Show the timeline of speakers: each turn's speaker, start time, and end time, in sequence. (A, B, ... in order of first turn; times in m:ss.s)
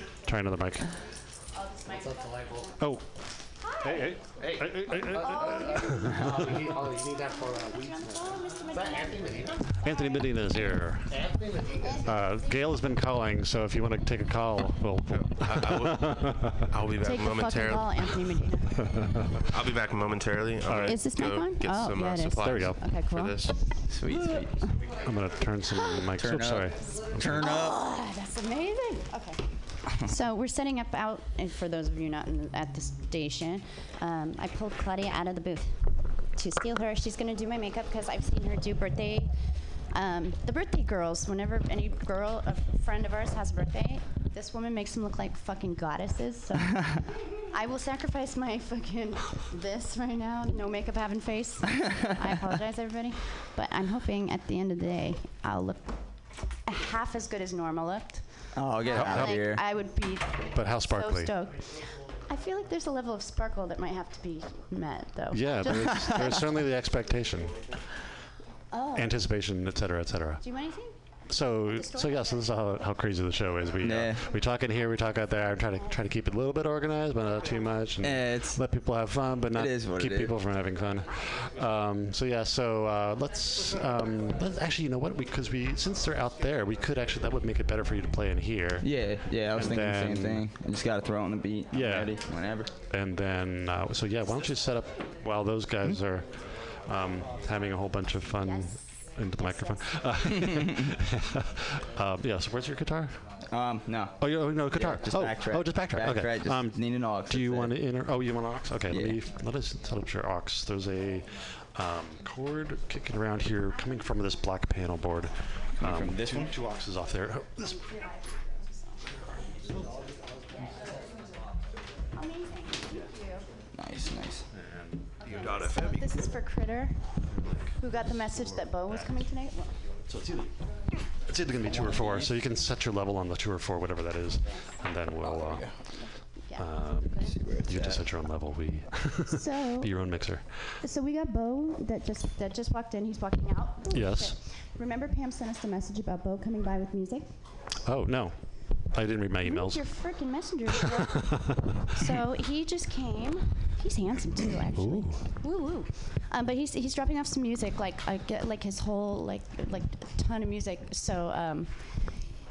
0:00.2-0:01.0 A
0:01.5-0:02.9 B
0:01.9-0:02.7 C
0:02.8-0:06.5 A
0:03.6-0:04.2 B
0:04.4-0:09.7 C
0:05.1-0:10.2 B
0:09.8-0:11.3 A
0:11.1-0:12.1 C
0:11.8-0:12.8 B
0:12.0-0:16.7 A
0:15.1-0:18.2 D
0:17.0-0:19.1 B
0:19.0-0:19.3 A
0:19.5-0:22.8 D
0:20.6-0:21.1 A
0:20.8-0:24.7 B
0:22.3-0:27.4 A
0:23.9-0:24.7 E
0:25.7-0:26.0 B
0:26.2-0:27.8 E
0:27.4-1:06.4 B
0:58.5-0:59.6 E
0:58.9-1:01.4 A
1:05.3-1:07.8 A
1:06.0-1:06.3 E
1:08.7-1:09.2 B
1:08.9-1:10.7 A
1:10.4-1:12.4 B
1:11.3-1:30.5 A
1:13.8-1:14.2 E
1:18.0-1:18.8 E
1:19.5-1:20.4 E
1:28.8-1:32.7 E
1:31.7-1:32.3 A
1:32.9-1:43.4 A
1:38.4-1:40.0 B
1:43.5-1:47.8 E
1:44.2-1:58.0 A
1:48.9-1:49.2 E
1:53.7-1:54.5 B
1:55.8-1:56.5 E
1:57.6-1:59.7 B
2:00.5-2:01.0 B
2:02.1-2:03.5 B
2:03.7-2:04.5 E
2:04.5-2:05.3 A
2:05.2-2:09.8 B
2:07.3-2:08.0 A
2:10.0-2:20.8 A
2:11.6-2:12.3 E
2:14.4-2:14.7 B
2:15.2-2:16.1 E
2:15.8-2:17.4 B
2:17.3-2:18.1 E
2:19.3-2:27.4 B
2:23.9-2:24.4 A
2:27.8-2:30.4 A
2:29.4-2:42.3 B
2:34.6-2:35.3 A